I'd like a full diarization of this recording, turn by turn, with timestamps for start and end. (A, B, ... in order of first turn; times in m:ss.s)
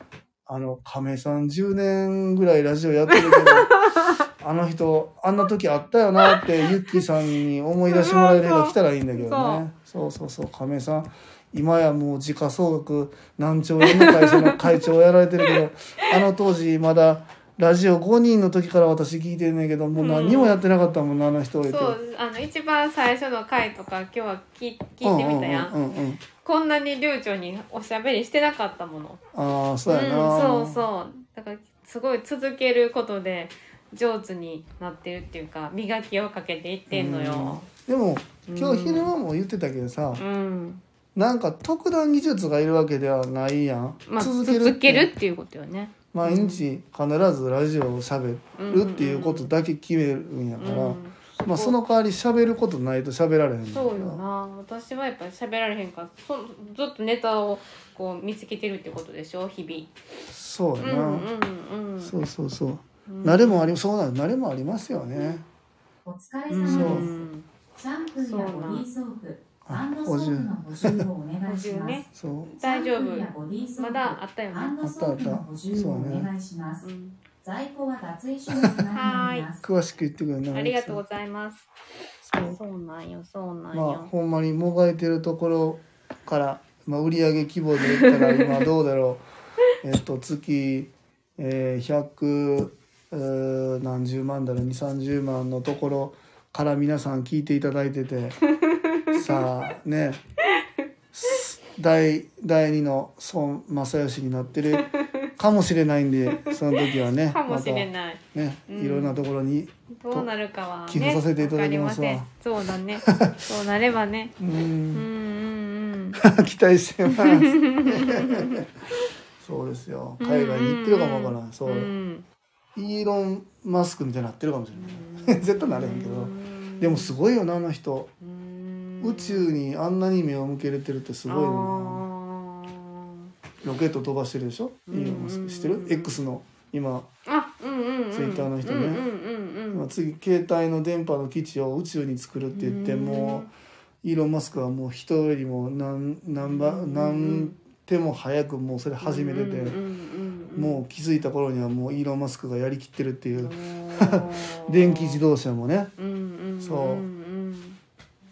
0:00.4-0:03.7 A
0:03.1-0:04.2 B
0:04.4-0:22.0 A
0:06.2-0:07.0 B
0:07.9-0:09.6 B
0:13.8-0:14.8 B
0:20.0-0:20.6 B
0:21.6-0:25.8 B
0:25.0-0:26.2 A
0:26.3-0:29.2 B
0:29.3-0:30.8 A
0:29.9-0:37.7 B
0:36.9-0:40.2 A
0:38.5-0:39.1 B
0:40.2-0:40.8 B
0:41.1-0:45.1 A
0:44.1-0:46.6 B
0:46.1-0:54.2 A
0:48.6-0:49.5 B
0:50.6-0:51.8 B
0:53.7-0:59.9 B
1:00.3-1:01.3 A
1:00.8-1:02.2 B
1:02.0-1:05.4 A
1:03.1-1:03.7 B
1:06.0-1:07.2 C
1:06.5-1:07.5 B
1:06.6-1:07.1 A
1:07.8-1:16.9 C
1:08.2-1:08.8 B
1:09.6-1:11.1 A
1:11.4-1:14.8 B
1:12.1-1:12.6 A
1:14.8-1:16.3 A
1:16.8-1:17.2 B
1:17.4-1:19.6 C
1:18.5-1:18.8 A
1:18.9-1:19.5 B
1:19.6-1:21.0 A
1:20.5-1:21.7 B
1:22.2-1:22.6 A
1:22.4-1:24.1 B
1:23.7-1:29.2 A
1:27.9-1:28.7 B
1:29.8-1:38.4 A
1:38.5-1:39.5 B
1:39.1-1:40.2 A
1:41.1-1:50.3 A
1:44.7-1:45.3 B
1:46.3-1:49.2 B
1:50.0-1:54.4 B
1:50.9-1:52.3 A
1:53.0-1:53.5 A
1:54.4-1:55.1 A
1:54.9-1:56.2 B
1:56.2-1:58.7 A
1:57.0-1:58.6 B
1:59.4-2:01.9 A
2:00.2-2:02.2 B
2:02.7-2:08.1 A
2:04.8-2:07.2 B
2:08.2-2:09.5 B
2:09.0-2:12.0 A
2:11.3-2:13.2 B
2:13.6-2:17.1 A
2:14.9-2:16.2 B
2:17.2-2:19.9 B
2:18.1-2:19.0 A
2:19.7-2:23.5 A
2:22.5-2:23.5 B
2:24.0-2:29.8 A
2:26.4-2:27.6 B
2:29.0-2:30.8 B
2:30.5-2:35.9 A
2:33.3-2:35.2 B
2:36.0-2:37.8 B
2:36.6-2:37.1 A